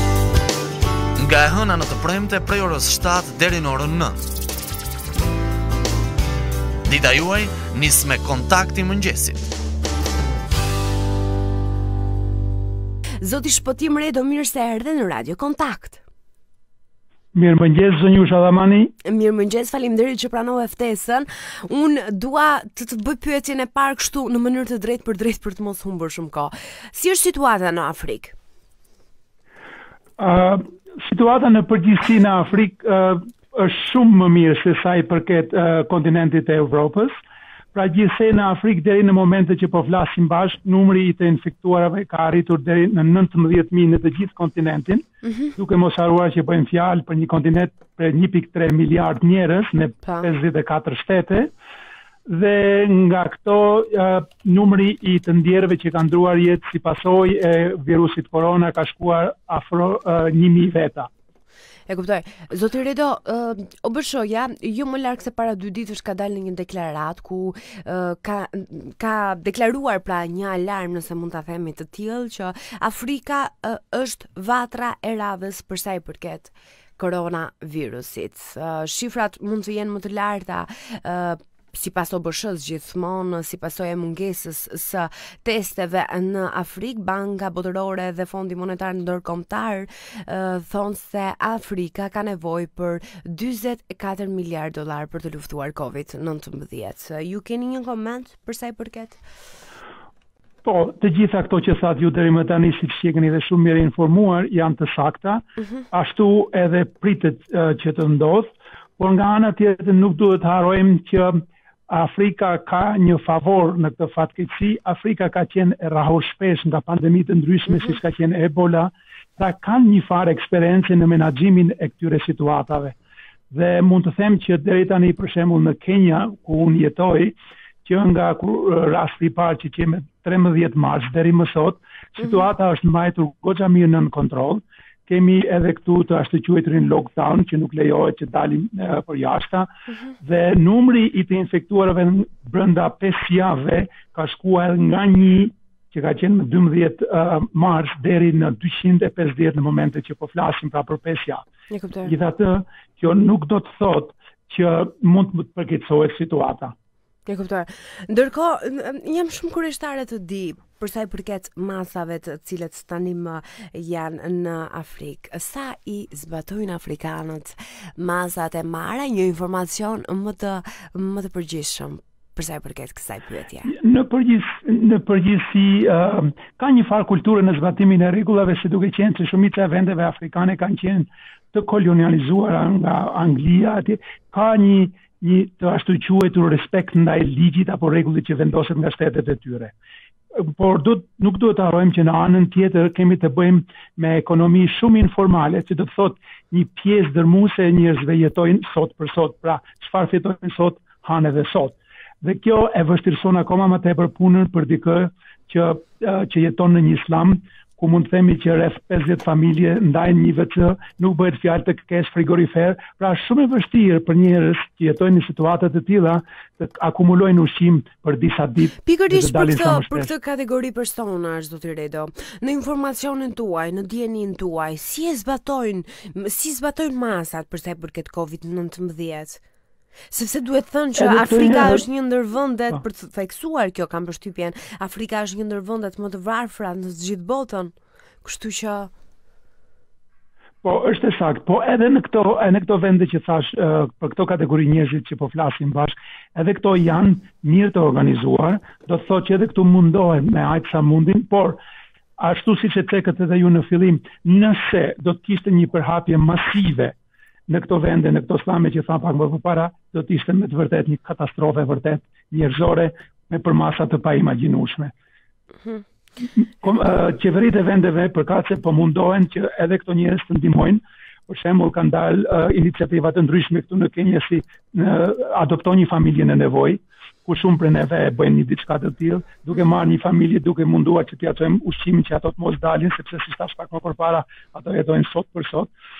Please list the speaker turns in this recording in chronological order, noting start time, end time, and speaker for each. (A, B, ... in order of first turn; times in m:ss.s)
0:01.2-0:04.2 A
0:06.8-0:09.4 A
0:13.2-0:16.0 B
0:17.3-0:18.9 C
0:19.0-0:28.3 B
0:30.2-0:37.1 C
0:37.7-0:45.0 C
0:45.6-0:51.5 C
0:52.2-1:01.1 C
1:01.9-1:39.2 B
1:40.6-2:03.0 C
2:03.5-2:31.4 C
2:31.7-2:32.1 B
2:32.0-2:36.7 C
2:37.2-2:53.7 B
2:53.6-3:09.7 C
3:10.3-3:40.1 C
3:38.8-3:49.4 B
3:50.1-3:58.9 B
3:51.0-3:51.8 C
4:00.6-4:11.6 C
4:12.2-4:16.9 C
4:17.5-4:24.9 C
4:26.2-4:45.7 C